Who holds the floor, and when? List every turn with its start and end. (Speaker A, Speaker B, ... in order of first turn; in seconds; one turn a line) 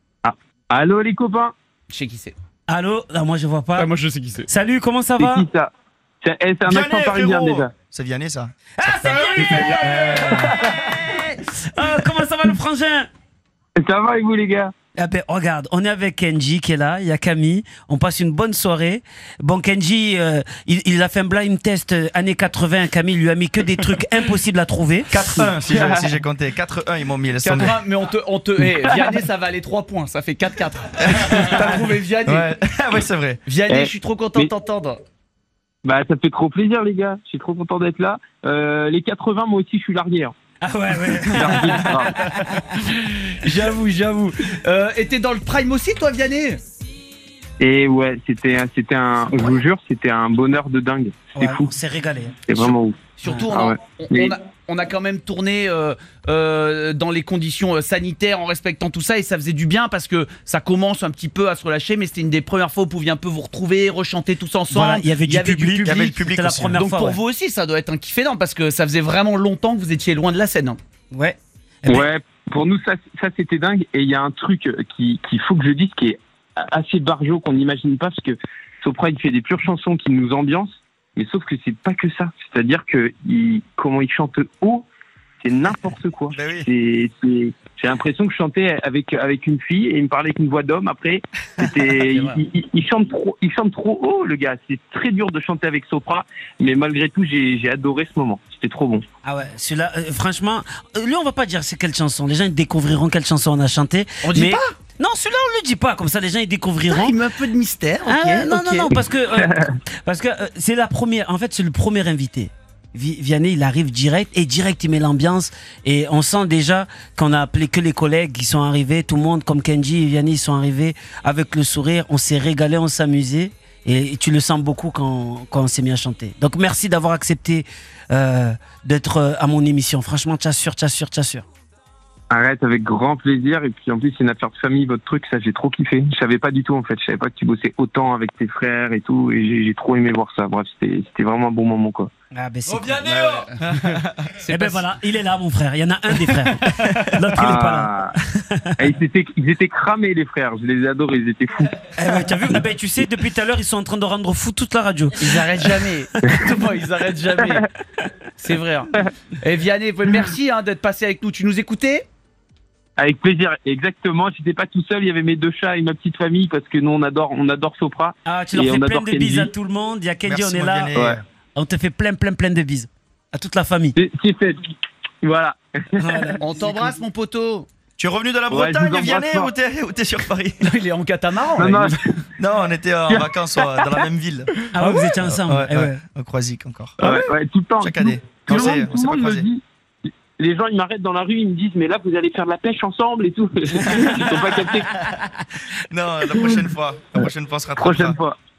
Speaker A: 0.2-1.5
Speaker B: 1.9-2.4
Speaker C: 2.7-3.9
Speaker B: 3.8-4.5
Speaker C: 4.5-5.5
Speaker A: 5.2-5.7
Speaker A: 6.2-7.7
Speaker D: 6.7-10.6
Speaker C: 8.8-13.1
Speaker A: 13.8-14.7
Speaker C: 15.0-25.4
Speaker D: 25.1-27.8
Speaker A: 25.4-26.1
Speaker B: 27.4-32.5
Speaker D: 31.0-33.4
Speaker B: 33.5-35.0
Speaker A: 33.7-34.5
Speaker A: 35.8-40.3
Speaker C: 40.6-42.6
Speaker A: 41.1-42.1
Speaker B: 43.4-46.6
Speaker A: 47.6-51.7
Speaker C: 51.4-52.7
Speaker A: 52.5-53.0
Speaker B: 53.2-66.2
Speaker A: 53.5-54.3
Speaker C: 64.7-67.2
Speaker D: 65.8-66.8
Speaker B: 66.8-70.8
Speaker C: 71.1-72.1
Speaker A: 71.9-84.8
Speaker A: 85.4-99.0
Speaker D: 86.3-86.7
Speaker B: 92.0-92.4
Speaker C: 99.2-107.2
Speaker B: 104.2-104.7
Speaker B: 106.9-109.0
Speaker C: 108.1-131.4
Speaker A: 132.3-142.1
Speaker C: 142.3-143.1
Speaker B: 142.7-143.8
Speaker D: 143.0-144.3
Speaker B: 144.4-144.8
Speaker C: 144.5-148.0
Speaker D: 146.3-147.2
Speaker A: 147.4-148.2
Speaker A: 148.8-151.7
Speaker C: 151.9-155.4
Speaker B: 155.2-157.7
Speaker B: 158.4-162.0
Speaker A: 163.0-169.5
Speaker C: 168.3-173.9
Speaker D: 170.3-171.2
Speaker A: 174.0-174.6
Speaker A: 175.2-176.4
Speaker C: 176.0-176.4
Speaker B: 176.4-177.7
Speaker D: 178.0-180.7
Speaker A: 178.5-179.5
Speaker B: 180.6-182.0
Speaker A: 181.6-182.0
Speaker D: 182.4-184.5
Speaker A: 183.1-184.1
Speaker C: 184.7-186.0
Speaker D: 185.1-189.5
Speaker A: 187.0-189.6
Speaker A: 190.4-195.0
Speaker D: 195.9-198.2
Speaker A: 196.3-196.7
Speaker A: 197.8-198.4